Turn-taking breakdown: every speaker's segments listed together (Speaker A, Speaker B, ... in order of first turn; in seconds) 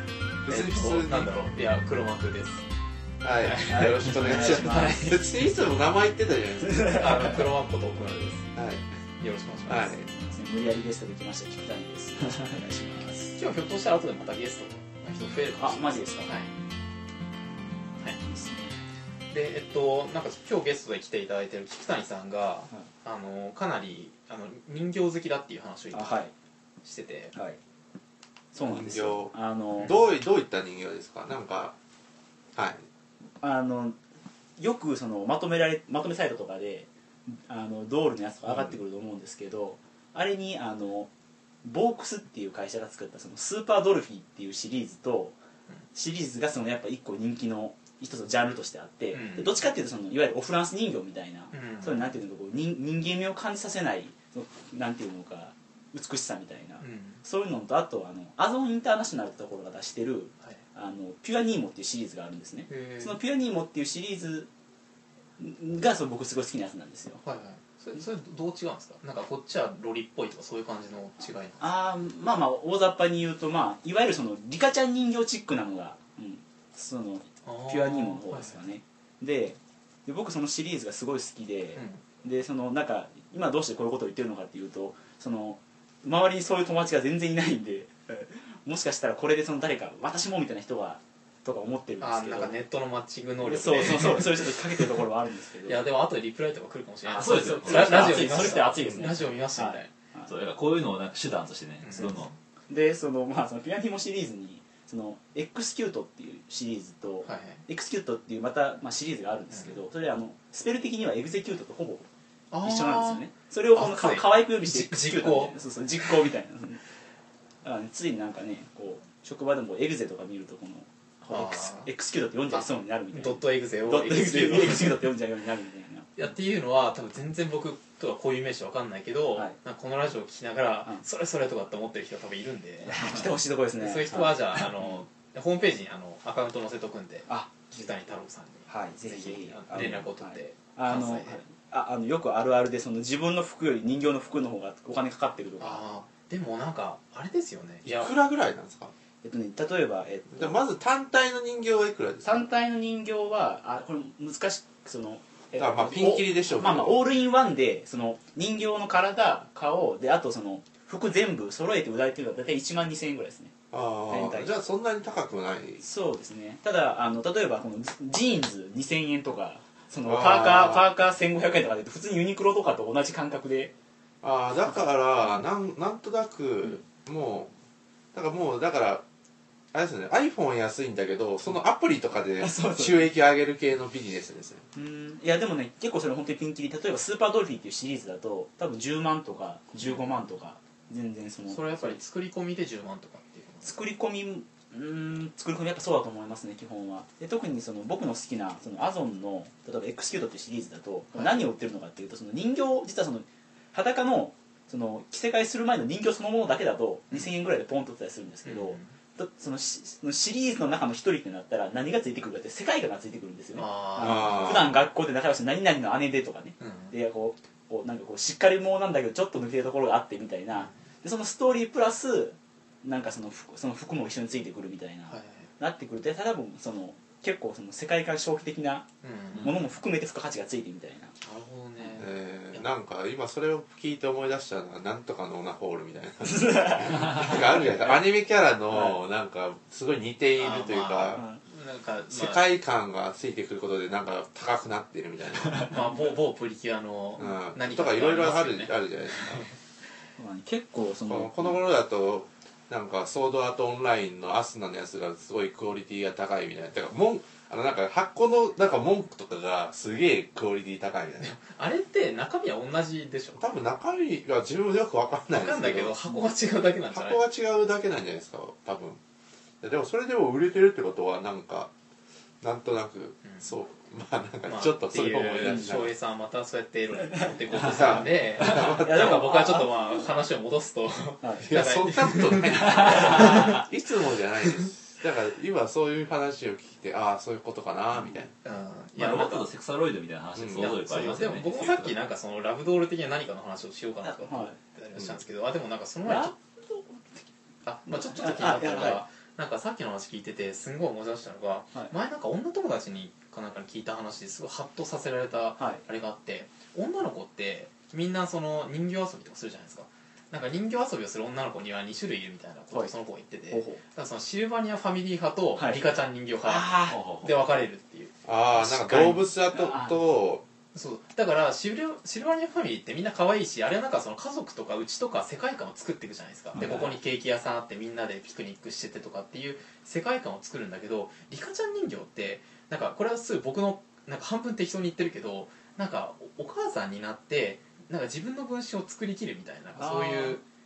Speaker A: 0.4-1.3, 3.2-7.0, 8.5-8.8, 9.7-10.1, 28.6-31.7, 32.5-32.8, 38.4-38.8, 147.8-148.9, 150.3-152.5, 155.5-157.0, 163.7-165.8, 170.1-170.8, 174.2-177.5, 178.1-179.0, 179.7-184.6, 214.0-214.7, 232.0-241.2, 242.1-245.7, 247.2-249.5, 251.1-261.4, 263.3-265.9, 266.9-269.0, 269.6-271.7, 272.4-275.9, 277.5-279.4, 281.4-288.3, 290.4-290.7, 318.2-320.4
Speaker B: 0.5-2.6, 3.4-5.2, 6.9-8.5, 9.2-10.0, 13.3-16.5, 19.3-26.2, 26.8-27.3, 49.1-49.6, 51.5-52.2, 56.8-57.2, 62.7-63.2, 67.2-71.8, 77.4-78.6, 81.7-82.0, 92.0-95.0, 95.6-99.9, 101.8-102.3, 107.2-107.6, 109.5-109.8, 112.5-115.6, 121.3-121.9, 122.5-125.0, 126.2-141.4, 145.6-148.1, 191.5-193.8, 201.1-201.5, 208.4-208.9, 213.5-214.5, 216.6-216.9, 225.1-225.5, 229.0-229.5, 231.2-232.6, 240.4-242.4, 245.7-249.5, 261.2-263.4, 265.3-267.2, 274.5-283.6, 288.4-289.5, 290.6-296.3, 297.6-318.1, 320.7-340.4
Speaker C: 3.7-5.1, 6.7-7.1, 10.1-13.4, 15.6-16.4, 18.2-18.8, 25.9-26.3, 27.3-27.6, 28.5-29.9, 33.4-34.0, 34.6-41.1, 41.6-45.3, 45.9-64.5, 65.4-67.2, 71.6-92.6, 93.4-95.8, 97.0-100.3, 101.9-112.1, 112.6-116.8, 117.6-126.1, 132.8-135.0, 137.3-137.9, 138.7-145.8, 149.2-150.6, 152.2-163.5, 164.1-164.5, 165.8-173.7, 182.4-183.1, 184.7-192.0, 193.6-228.9, 229.4-231.1, 236.2-238.0, 241.1-241.4, 250.2-251.6, 275.4-275.8, 278.8-279.7, 281.2-281.6, 283.0-283.6, 294.0-294.6, 296.0-297.2, 297.9-299.0, 313.5-313.8, 315.6-315.8, 316.4-317.0, 318.6-320.0, 339.8-340.4
Speaker D: 97.1-98.8, 100.2-102.3, 289.0-292.0, 316.9-317.3, 326.5-326.9